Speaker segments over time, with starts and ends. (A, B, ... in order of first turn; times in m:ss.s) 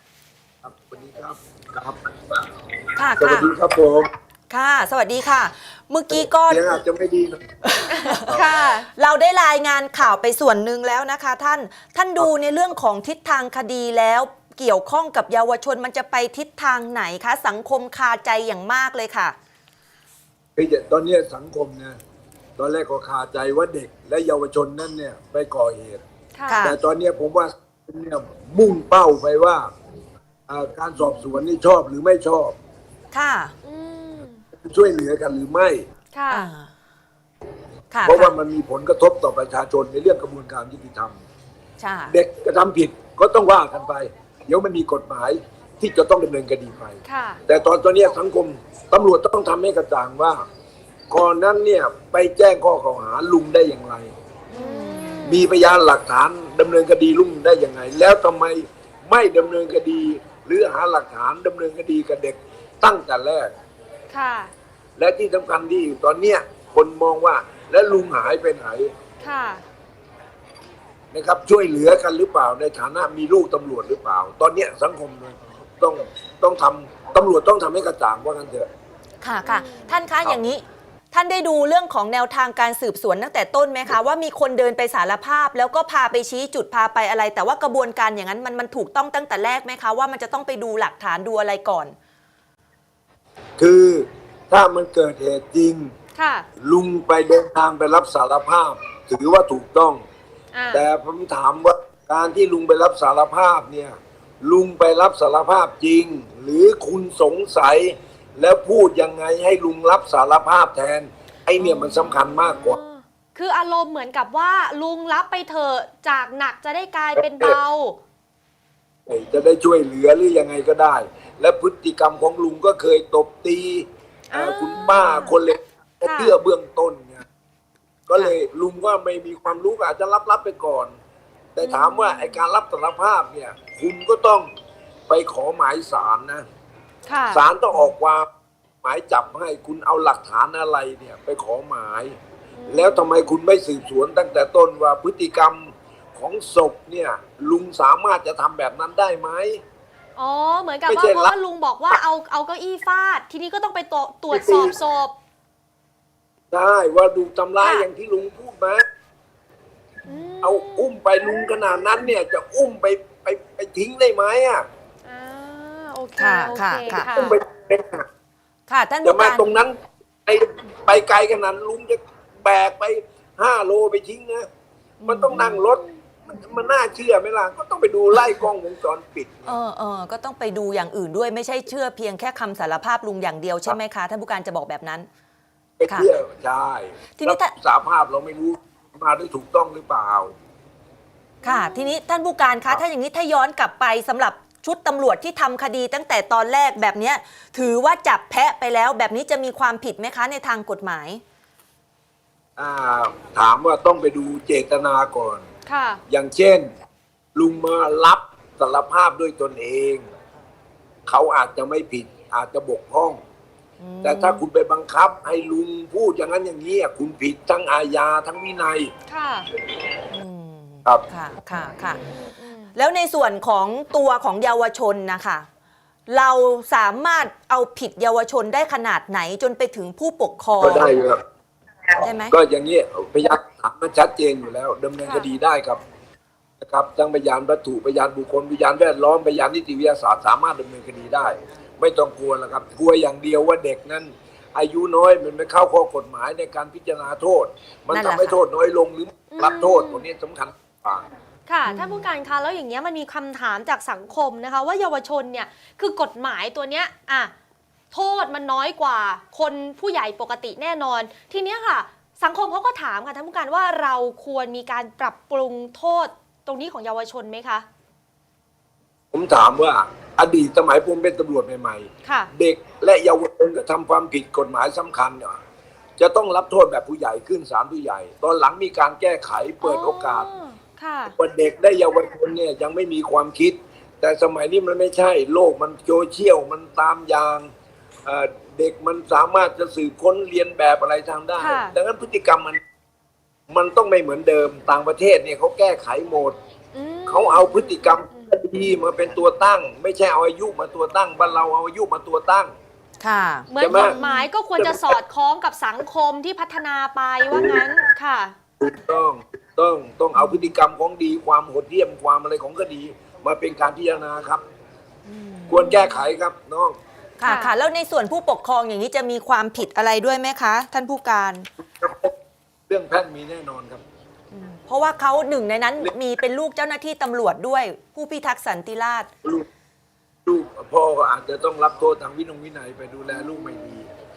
0:00.6-0:02.4 A
0:03.0-0:03.5 B
0:03.2-0:04.1 A
0:04.5-0:06.6 B
0:06.1-0:07.5 A
0:07.6-0:08.4 B
0:07.9-0:08.9 C
0:08.2-0:08.5 A
0:08.9-0:19.4 B
0:20.6-0:22.0 A
0:22.6-0:26.0 A
0:26.4-0:26.7 C
0:26.5-0:26.8 B
0:26.6-0:29.7 A
0:30.5-0:32.6 A
0:33.1-0:33.5 B
0:33.6-0:34.4 C
0:34.6-0:35.9 A
0:36.1-0:36.5 C
0:36.3-0:36.7 B
0:37.9-0:38.4 B
0:38.0-0:41.2 A
0:41.8-0:42.2 B
0:42.1-0:50.4 A
0:47.0-0:47.4 C
0:51.1-0:54.1 A
0:54.5-0:55.2 B
0:54.5-0:55.5 C
0:55.2-1:03.5 A
1:04.1-1:04.5 C
1:05.0-1:08.9 A
1:09.2-1:09.6 C
1:11.1-1:18.7 A
1:19.2-1:32.0 B
1:19.4-1:19.9 C
1:33.6-1:35.9 A
1:36.2-1:36.5 C
1:36.6-1:40.0 A
1:40.5-1:40.8 C
1:40.7-1:52.8 A
1:51.6-1:58.0 C
1:57.2-1:57.6 A
1:59.1-2:07.3 A
2:04.3-2:05.4 C
2:04.8-2:05.2 B
2:06.0-2:06.4 C
2:08.1-2:10.9 A
2:11.6-2:14.5 A
2:11.6-2:12.4 C
2:15.1-2:16.5 A
2:17.1-2:17.4 C
2:17.3-2:18.3 A
2:18.8-2:22.2 A
2:22.6-2:23.1 C
2:22.7-2:29.6 A
2:30.2-2:35.1 C
2:30.9-2:31.3 A
2:34.3-2:34.8 A
2:36.5-2:38.8 A
2:37.6-2:37.9 C
2:40.1-2:40.9 C
2:40.4-2:44.7 A
2:45.0-2:47.4 C
2:46.2-2:47.1 B
2:46.9-2:48.1 A
2:48.7-2:49.5 B
2:49.0-2:54.5 A
2:55.0-2:55.6 B
2:55.1-2:59.6 A
2:55.3-2:55.7 C
2:59.5-3:05.1 B
3:05.8-3:10.3 A
3:07.2-3:07.5 B
3:11.4-3:12.0 C
3:11.4-3:21.2 B
3:22.6-3:25.5 A
3:25.7-3:26.0 C
3:26.1-3:26.7 A
3:27.4-3:30.1 A
3:31.1-3:33.2 A
3:33.8-3:34.4 B
3:34.0-3:38.9 A
3:39.1-3:39.5 C
3:40.1-3:42.0 B
3:42.0-3:42.7 C
3:42.7-3:45.5 B
3:46.1-3:51.0 B
3:50.6-3:51.2 A
3:52.0-3:52.4 B
3:52.0-3:55.8 A
3:55.0-3:55.3 C
3:56.6-4:11.1 A
4:07.9-4:08.4 B
4:09.3-4:10.0 C
4:11.5-4:17.3 C
4:11.7-4:12.1 B
4:17.9-4:27.7 C
4:29.1-4:35.4 A
4:32.0-4:32.3 C
4:36.0-4:40.3 A
4:39.6-4:41.2 C
4:41.1-4:47.5 A
4:48.0-4:52.6 A
4:51.4-4:51.8 C
4:53.5-4:56.4 A
4:56.7-4:58.4 C
4:57.1-5:02.5 A
5:03.0-5:04.3 B
5:03.5-5:08.4 C
5:03.6-5:04.0 A
5:04.6-5:05.0 A
5:07.3-5:07.6 A
5:08.6-5:14.4 A
5:10.2-5:10.5 B
5:15.1-5:16.0 B
5:15.5-5:16.8 A
5:17.2-5:21.5 B
5:17.2-5:17.5 C
5:21.8-5:22.1 A
5:22.7-5:23.8 A
5:24.3-5:29.1 B
5:30.3-5:33.9 A